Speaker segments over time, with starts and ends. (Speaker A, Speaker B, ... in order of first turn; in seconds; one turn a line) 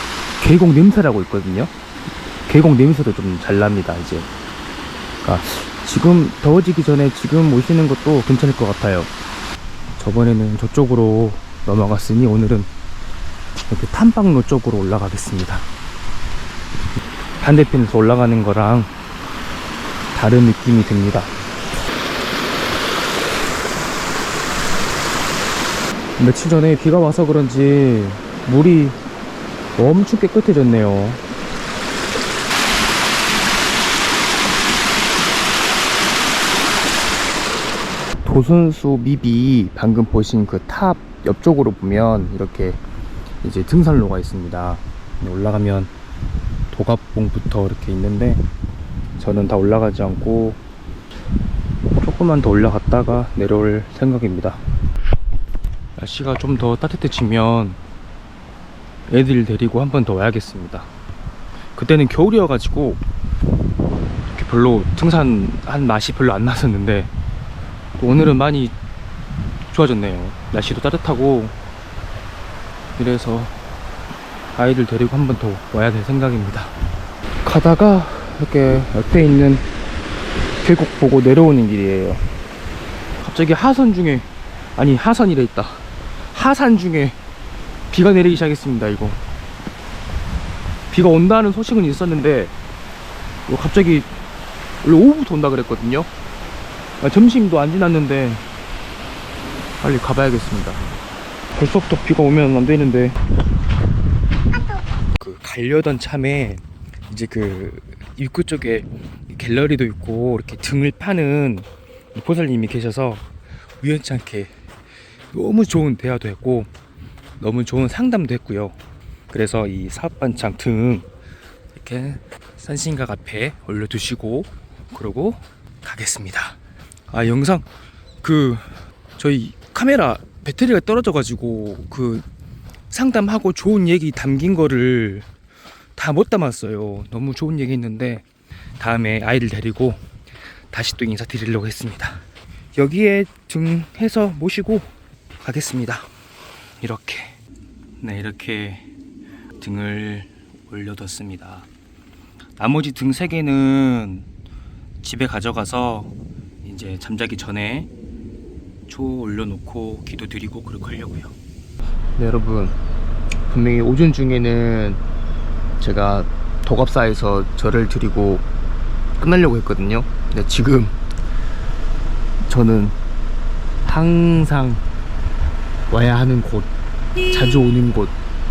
Speaker A: 0.4-1.7
Speaker A: 2.5-4.3
Speaker A: 5.2-9.1
Speaker A: 10.0-12.7
Speaker A: 13.7-15.7
Speaker A: 17.4-18.9
Speaker A: 20.1-21.3
Speaker A: 26.2-29.0
Speaker A: 29.8-31.2
Speaker A: 38.2-42.8
Speaker A: 43.4-45.9
Speaker A: 46.7-48.5
Speaker A: 49.2-50.6
Speaker A: 52.0-54.6
Speaker A: 56.0-57.8
Speaker A: 59.1-60.9
Speaker A: 61.8-63.0
Speaker A: 64.3-67.1
Speaker A: 68.0-68.8
Speaker A: 69.7-71.5
Speaker A: 73.0-73.6
Speaker A: 74.5-76.8
Speaker A: 77.4-79.7
Speaker A: 80.6-82.2
Speaker A: 83.2-87.2
Speaker A: 87.9-89.2
Speaker A: 90.9-92.5
Speaker A: 93.5-94.1
Speaker A: 94.8-96.1
Speaker A: 97.0-98.5
Speaker A: 99.8-100.8
Speaker A: 101.5-103.2
Speaker A: 105.2-113.3
Speaker A: 113.8-114.5
Speaker A: 115.3-116.7
Speaker A: 117.4-118.8
Speaker A: 119.3-121.1
Speaker A: 121.7-126.6
Speaker A: 127.1-127.7
Speaker A: 128.2-132.2
Speaker A: 132.9-135.3
Speaker A: 136.0-138.2
Speaker A: 138.8-140.0
Speaker A: 140.7-142.2
Speaker A: 142.8-146.1
Speaker A: 146.8-147.4
Speaker A: 148.0-148.9
Speaker A: 149.6-151.7
Speaker A: 152.6-154.3
Speaker A: 155.0-157.9
Speaker A: 158.9-161.3
Speaker A: 162.2-162.8
Speaker A: 163.5-165.0
Speaker A: 165.8-168.5
Speaker A: 169.2-171.0
Speaker A: 172.4-173.0
Speaker A: 173.8-174.8
Speaker A: 175.9-176.7
Speaker A: 177.2-178.1